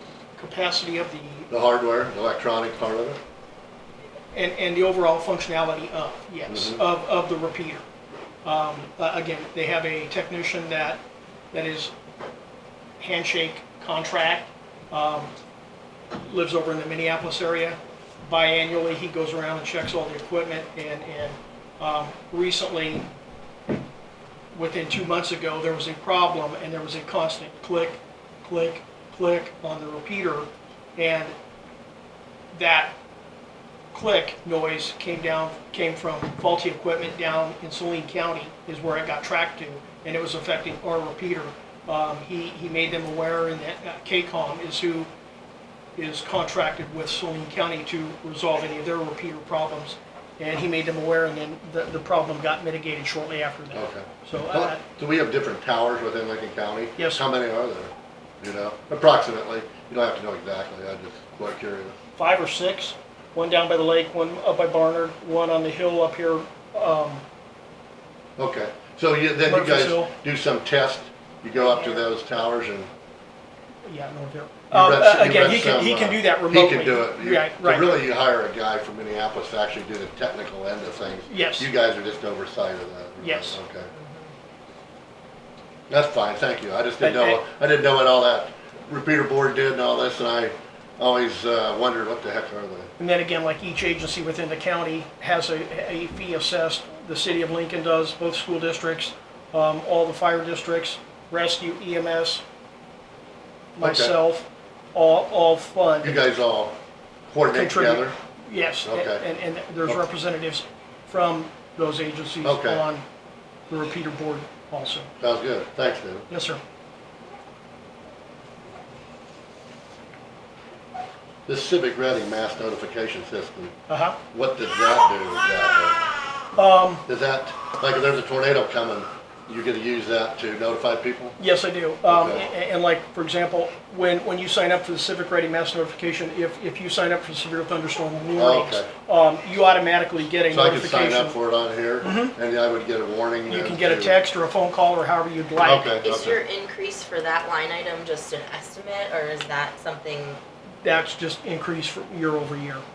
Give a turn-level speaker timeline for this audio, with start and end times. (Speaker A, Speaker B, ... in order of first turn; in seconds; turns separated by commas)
Speaker A: 0.4-1.5, Speaker B: 1.5-3.2, Speaker A: 4.3-7.8, Speaker B: 6.5-6.8, Speaker A: 8.4-11.0, Speaker A: 11.5-11.9, Speaker A: 13.0-15.3, Speaker A: 16.1-23.1, Speaker A: 24.5-31.3, Speaker A: 32.5-33.0, Speaker A: 33.9-45.1, Speaker A: 46.0-54.8, Speaker B: 53.7-62.0, Speaker A: 57.0-57.2, Speaker A: 62.1-67.2, Speaker B: 68.4-72.9, Speaker A: 69.5-70.1, Speaker A: 73.8-77.9, Speaker B: 74.7-83.9, Speaker A: 81.3-81.7, Speaker A: 83.2-83.6, Speaker B: 85.9-92.9, Speaker A: 87.0-87.4, Speaker A: 93.0-102.4, Speaker A: 103.8-106.2, Speaker B: 103.8-104.2, Speaker B: 106.0-106.8, Speaker B: 107.3-108.2, Speaker A: 107.5-113.0, Speaker B: 108.8-109.2, Speaker B: 112.4-112.8, Speaker A: 113.7-115.1, Speaker B: 115.2-116.3, Speaker A: 116.3-116.6, Speaker B: 121.5-123.7, Speaker A: 123.9-124.2, Speaker B: 124.3-126.0, Speaker A: 126.6-127.0, Speaker B: 127.1-131.4, Speaker A: 131.4-141.3, Speaker B: 132.1-132.4, Speaker B: 138.3-138.9, Speaker B: 140.5-144.2, Speaker A: 142.0-142.3, Speaker A: 143.5-146.0, Speaker B: 145.6-146.4, Speaker C: 146.0-150.4, Speaker A: 150.8-152.8